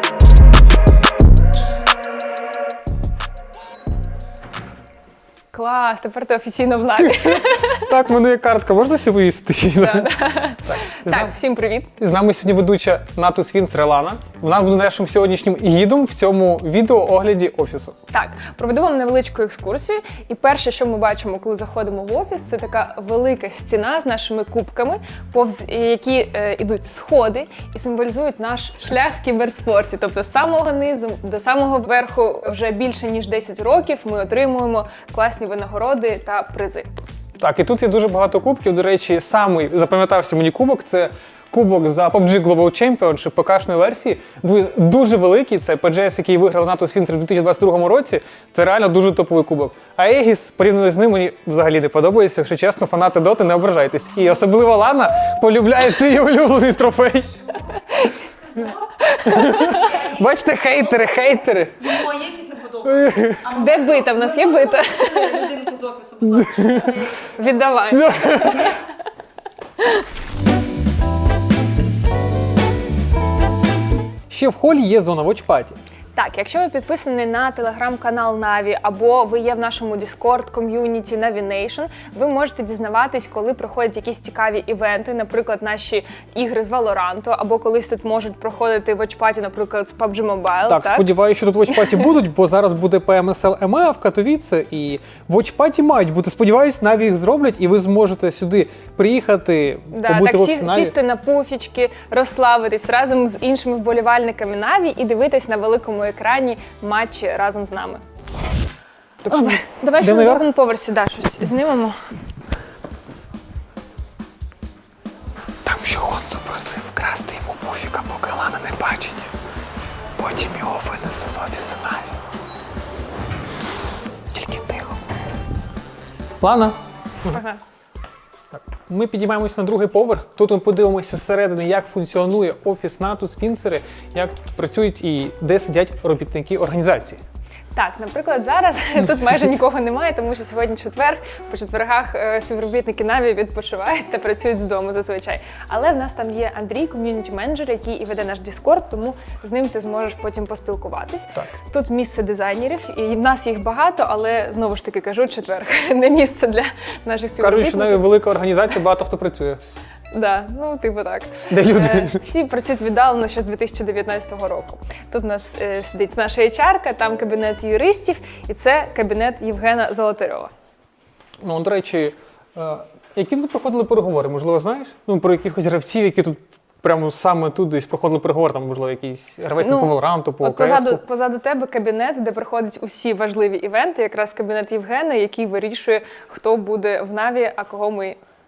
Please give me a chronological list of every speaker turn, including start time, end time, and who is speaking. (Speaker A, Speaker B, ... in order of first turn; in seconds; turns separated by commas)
Speaker A: 5.5-7.9, Speaker B: 7.8-10.1, Speaker A: 9.8-11.9, Speaker B: 10.6-11.3, Speaker B: 12.0-18.0, Speaker A: 18.1-36.9, Speaker B: 37.4-57.3, Speaker A: 59.0-60.0, Speaker B: 59.2-63.5, Speaker C: 62.0-62.9, Speaker A: 63.5-65.7, Speaker C: 63.6-63.9, Speaker C: 65.3-67.2, Speaker B: 66.3-67.1, Speaker A: 67.3-68.9, Speaker B: 67.9-68.8, Speaker B: 74.3-75.8, Speaker A: 76.2-91.1, Speaker B: 90.7-100.9, Speaker A: 99.9-108.0, Speaker B: 109.2-110.5, Speaker A: 109.3-112.0, Speaker B: 115.7-119.3, Speaker B: 120.2-122.2, Speaker B: 124.3-125.0, Speaker B: 126.4-127.4, Speaker A: 127.3-127.6, Speaker B: 128.5-137.2, Speaker A: 137.7-158.0, Speaker B: 157.4-159.6, Speaker A: 160.1-170.5, Speaker B: 161.5-162.2, Speaker B: 171.4-181.0, Speaker A: 179.6-188.2